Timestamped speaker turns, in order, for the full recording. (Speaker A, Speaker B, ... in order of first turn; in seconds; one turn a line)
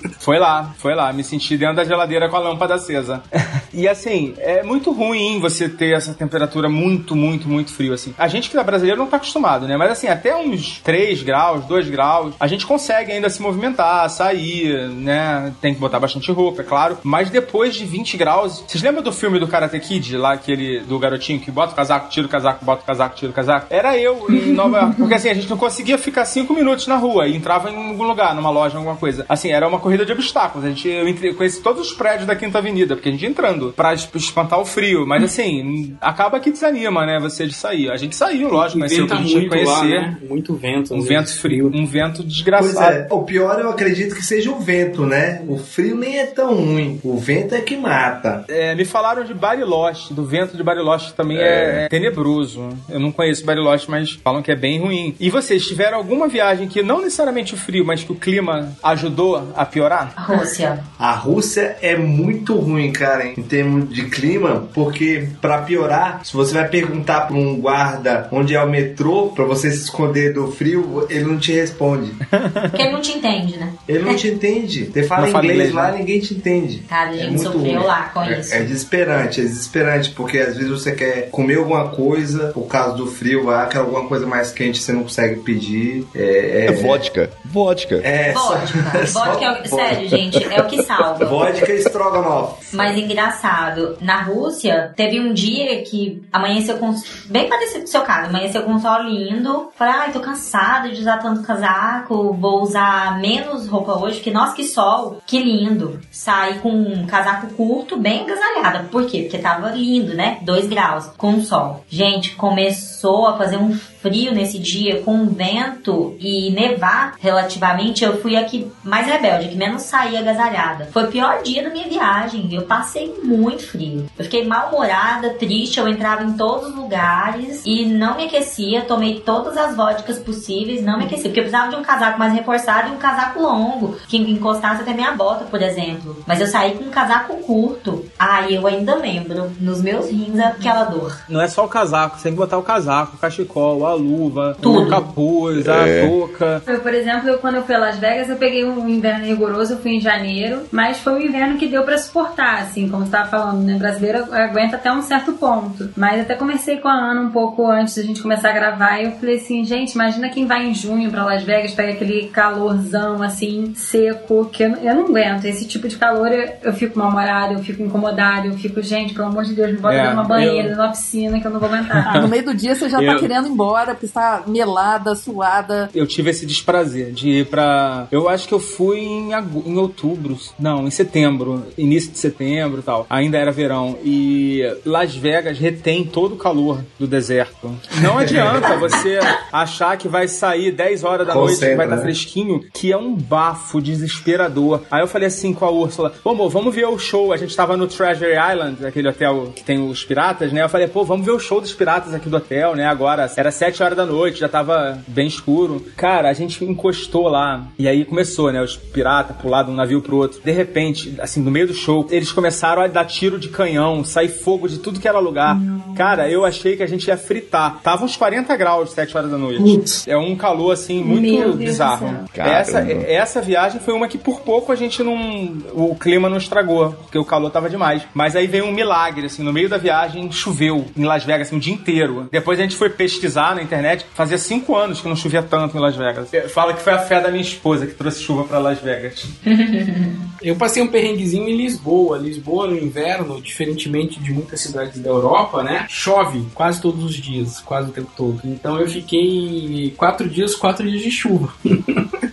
Speaker A: 0.2-40.1
Speaker B: 24.3-25.1
Speaker C: 38.6-41.8
Speaker A: 40.9-43.0
Speaker D: 42.6-48.4
Speaker A: 48.5-60.1
Speaker D: 51.4-51.7
Speaker E: 51.4-51.8
Speaker F: 60.2-60.9
Speaker D: 61.0-72.2
Speaker A: 72.3-72.9
Speaker F: 72.7-74.2
Speaker D: 73.9-87.0
Speaker A: 75.2-76.0
Speaker F: 76.9-78.7
Speaker E: 86.7-88.0
Speaker D: 88.0-90.5
Speaker F: 88.3-91.5
Speaker D: 91.2-93.0
Speaker F: 92.7-141.2
Speaker B: 140.5-140.8
Speaker A: 141.3-146.6
Speaker F: 144.6-145.0
Speaker E: 145.5-146.1
Speaker B: 146.7-172.3
Speaker A: 169.8-170.8
Speaker A: 171.9-172.3
Speaker G: 172.1-175.9
Speaker A: 173.0-173.3
Speaker A: 175.9-239.3
Speaker D: 188.0-188.8
Speaker D: 191.2-192.1
Speaker B: 215.5-216.3
Speaker B: 219.6-220.0
Speaker B: 221.0-222.3
Speaker E: 222.3-223.1
Speaker F: 239.5-240.3
Speaker C: 240.4-252.1